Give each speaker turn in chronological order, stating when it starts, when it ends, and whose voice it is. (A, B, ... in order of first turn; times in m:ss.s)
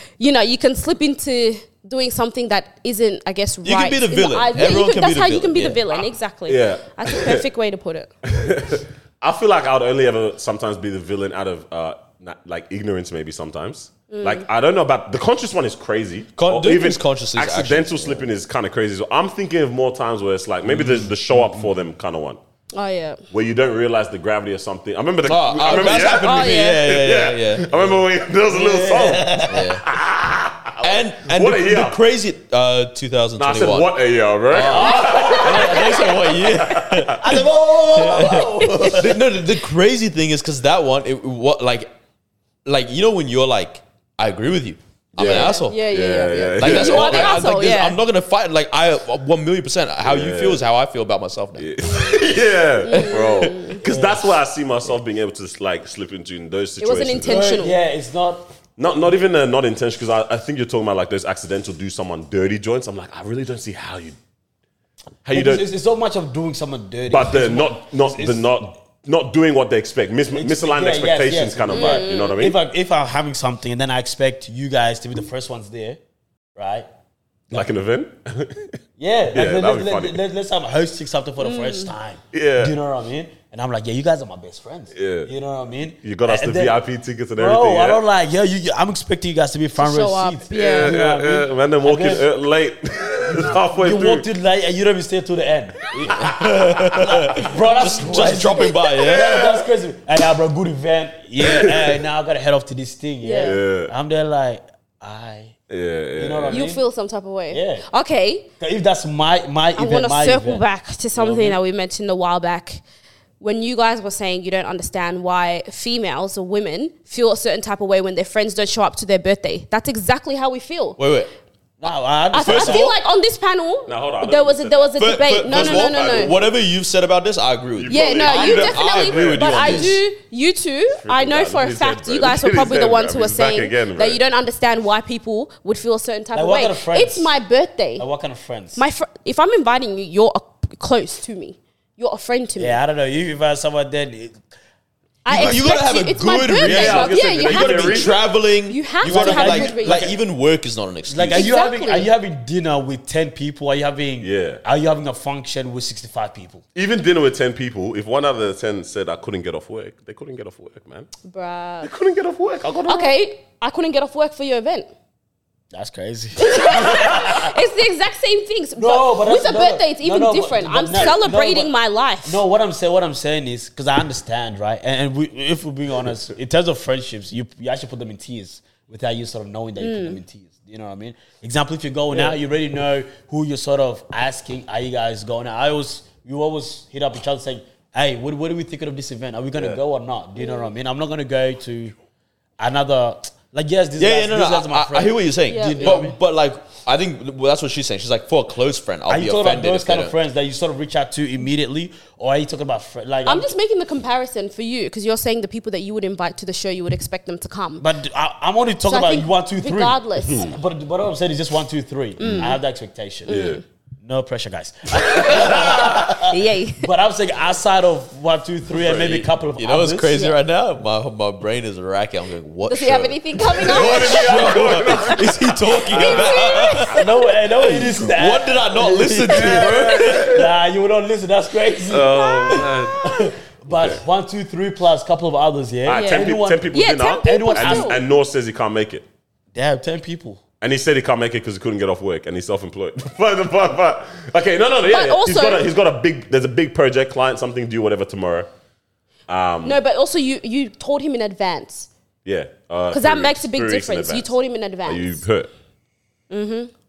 0:00.2-0:08.1 A
0:03.6-0:05.8 B
0:06.5-0:07.5 C
0:08.2-0:22.4 C
0:14.1-0:14.5 A
0:16.4-0:18.3 B
0:22.7-0:23.2 A
0:23.3-0:32.0 C
0:25.2-0:28.0 B
0:25.7-0:26.9 A
0:28.5-0:29.8 D
0:29.5-0:29.8 B
0:30.8-0:34.0 B
0:33.4-0:37.2 C
0:34.5-0:41.9 B
0:34.6-0:36.3 D
0:35.0-0:35.6 A
0:37.2-0:39.3 D
0:42.6-0:52.1 B
0:45.2-0:47.5 C
0:45.2-0:48.0 A
0:50.0-0:50.6 C
0:51.6-0:57.5 C
0:52.8-0:53.8 A
0:52.9-0:53.6 B
0:53.8-0:54.2 D
0:56.8-0:57.8 A
0:57.2-0:58.5 D
0:58.8-1:04.2 C
1:05.2-1:05.7 C
1:05.3-1:08.6 D
1:07.1-1:12.6 C
1:10.3-1:16.0 D
1:11.7-1:12.4 A
1:16.6-1:16.9 D
1:17.5-1:18.8 C
1:19.0-1:26.8 D
1:19.3-1:20.2 C
1:21.4-1:21.9 A
1:22.3-1:22.7 C
1:24.9-1:25.3 C
1:26.0-1:28.0 C
1:27.4-1:32.3 D
1:29.8-1:31.0 A
1:30.5-1:34.3 C
1:33.3-1:36.4 D
1:36.0-1:36.7 C
1:36.2-1:39.4 B
1:36.9-1:45.6 D
1:39.0-1:39.6 C
1:41.4-1:42.0 C
1:43.2-1:43.6 A
1:43.4-1:43.9 C
1:45.7-1:46.7 C
1:46.2-1:46.8 D
1:46.5-1:48.5 A
1:47.5-1:47.9 D
1:48.6-1:50.6 D
1:49.8-1:52.8 A
1:51.2-1:51.6 D
1:53.4-2:01.0 A
2:01.0-2:01.3 B
2:01.8-2:02.9 D
2:02.3-2:06.4 A
2:02.4-2:03.0 B
2:03.9-2:06.4 C
2:05.0-2:10.0 B
2:07.8-2:10.0 C
2:07.9-2:18.1 A
2:10.9-2:14.2 C
2:16.3-2:17.3 D
2:18.0-2:18.8 D
2:18.8-2:22.8 A
2:22.6-2:24.4 D
2:25.2-2:30.1 A
2:25.3-2:31.5 B
2:26.6-2:28.2 C
2:29.0-2:30.2 D
2:31.1-2:36.6 D
2:31.3-2:32.1 A
2:34.2-2:34.6 C
2:36.8-2:41.1 C
2:41.2-2:41.9 A
2:41.8-2:43.1 C
2:42.9-2:44.9 A
2:45.7-2:47.6 D
2:46.4-2:52.4 A
2:48.8-2:51.7 D
2:52.2-3:12.0 D
2:59.8-3:00.2 A
3:10.4-3:10.7 A
3:12.6-3:16.2 D
3:14.0-3:20.1 B
3:15.5-3:16.1 A
3:19.1-3:23.5 D
3:23.3-3:27.9 A
3:27.8-3:33.4 D
3:28.9-3:30.5 A
3:30.2-3:30.5 C
3:32.2-3:32.6 A
3:33.3-3:33.6 C
3:33.3-3:33.6 A
3:34.0-3:40.4 D
3:35.0-3:35.8 C
3:35.6-3:36.9 A
3:38.8-3:39.2 C
3:38.8-3:47.0 B
3:42.7-3:47.1 A
3:43.6-3:47.0 C
3:46.9-3:58.0 D
3:47.7-3:50.4 B
3:49.3-3:50.5 C
3:51.9-3:53.2 C
3:52.2-3:52.7 A
3:53.7-3:54.0 C
3:55.9-3:59.0 C
3:55.9-3:58.0 A
3:59.5-4:00.4 D
4:00.6-4:08.5 C
4:04.9-4:05.7 A
4:09.3-4:09.8 C
4:09.6-4:11.9 A
4:12.2-4:14.3 C
4:12.9-4:15.2 A
4:14.9-4:15.5 C
4:16.3-4:16.7 A